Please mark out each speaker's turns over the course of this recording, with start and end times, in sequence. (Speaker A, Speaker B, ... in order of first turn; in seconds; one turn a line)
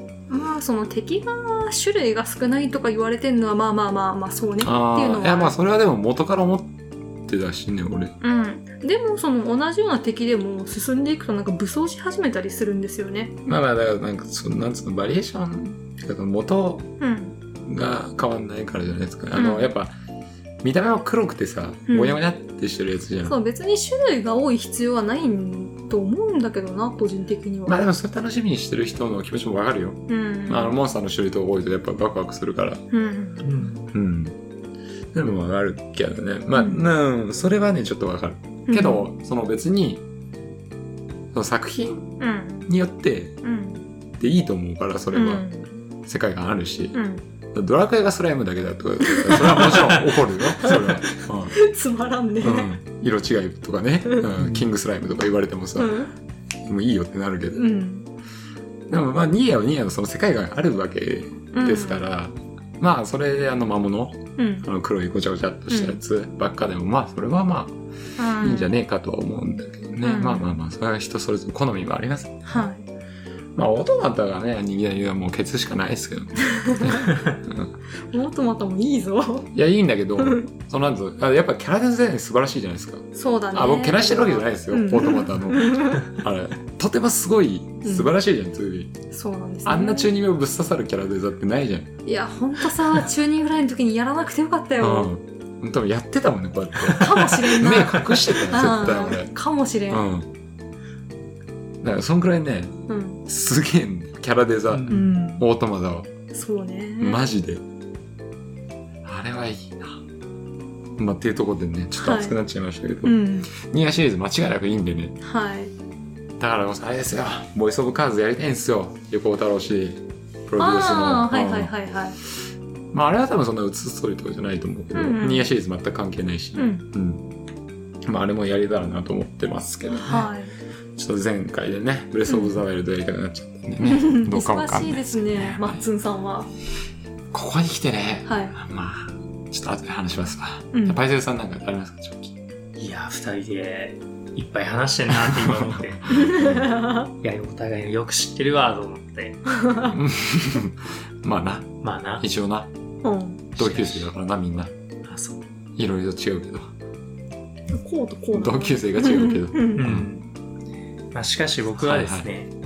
Speaker A: 0.3-5.5
Speaker B: 4.6-6.8
Speaker B: 7.3-8.2
Speaker A: 8.2-13.3
Speaker B: 13.5-16.9
Speaker A: 17.0-17.4
Speaker B: 17.7-19.9
Speaker A: 19.4-19.7
Speaker B: 20.6-23.4
Speaker A: 21.9-22.2
Speaker A: 23.2-27.8
Speaker B: 27.7-32.8
Speaker A: 30.1-30.8
Speaker A: 32.9-33.5
Speaker C: 33.4-33.9
Speaker B: 33.9-34.4
Speaker B: 35.1-40.0
Speaker A: 36.5-36.9
Speaker A: 38.7-39.1
Speaker B: 41.3-42.1
Speaker A: 42.2-42.7
Speaker B: 42.7-43.4
Speaker A: 43.4-43.9
Speaker B: 44.2-45.5
Speaker A: 45.1-45.8
Speaker B: 46.1-47.0
Speaker A: 46.9-47.2
Speaker B: 47.5-51.6
Speaker A: 49.0-49.6
Speaker C: 49.5-50.1
Speaker C: 50.6-51.2
Speaker A: 51.5-52.7
Speaker B: 52.4-56.0
Speaker C: 54.4-54.7
Speaker A: 55.8-56.1
Speaker B: 56.6-57.6
Speaker A: 57.5-58.1
Speaker B: 58.9-67.8
Speaker A: 61.5-62.1
Speaker A: 64.4-64.7
Speaker A: 65.7-66.0
Speaker A: 68.2-68.7
Speaker B: 68.4-72.7
Speaker A: 70.0-70.5
Speaker A: 72.5-72.9
Speaker B: 73.5-77.7
Speaker A: 76.5-77.1
Speaker A: 78.1-79.5
Speaker B: 79.5-88.9
Speaker A: 80.2-80.5
Speaker A: 83.2-86.1
Speaker A: 87.8-88.1
Speaker A: 89.1-90.1
Speaker B: 89.7-91.9
Speaker A: 92.1-95.1
Speaker B: 94.8-99.3
Speaker A: 97.0-100.1
Speaker B: 99.9-100.3
Speaker B: 101.8-102.8
Speaker A: 102.9-103.2
Speaker B: 103.3-106.1
Speaker C: 104.7-105.1
Speaker A: 104.9-105.5
Speaker A: 106.3-107.3
Speaker B: 107.0-107.6
Speaker B: 109.0-110.0
Speaker B: 111.0-115.2
Speaker A: 112.0-112.4
Speaker A: 113.0-113.5
Speaker A: 115.2-115.7
Speaker B: 116.4-121.7
Speaker A: 120.6-122.2
Speaker B: 122.9-127.2
Speaker A: 124.9-125.5
Speaker A: 126.6-126.9
Speaker B: 128.1-130.3
Speaker A: 129.9-130.6
Speaker B: 131.0-135.8
Speaker A: 132.3-132.6
Speaker A: 133.8-136.5
Speaker B: 137.3-142.3
Speaker A: 138.3-138.6
Speaker A: 140.7-141.0
Speaker C: 142.8-146.1
Speaker B: 145.1-146.7
Speaker A: 146.1-147.1
Speaker C: 147.2-149.6
Speaker A: 149.6-149.9
Speaker B: 149.8-152.7
Speaker C: 151.8-152.2
Speaker A: 153.0-153.5
Speaker B: 153.6-154.7
Speaker C: 153.6-154.1
Speaker C: 155.1-155.4
Speaker B: 155.8-156.7
Speaker A: 157.7-159.8
Speaker B: 158.3-160.1
Speaker C: 159.8-160.3
Speaker C: 161.1-162.5
Speaker B: 161.8-162.3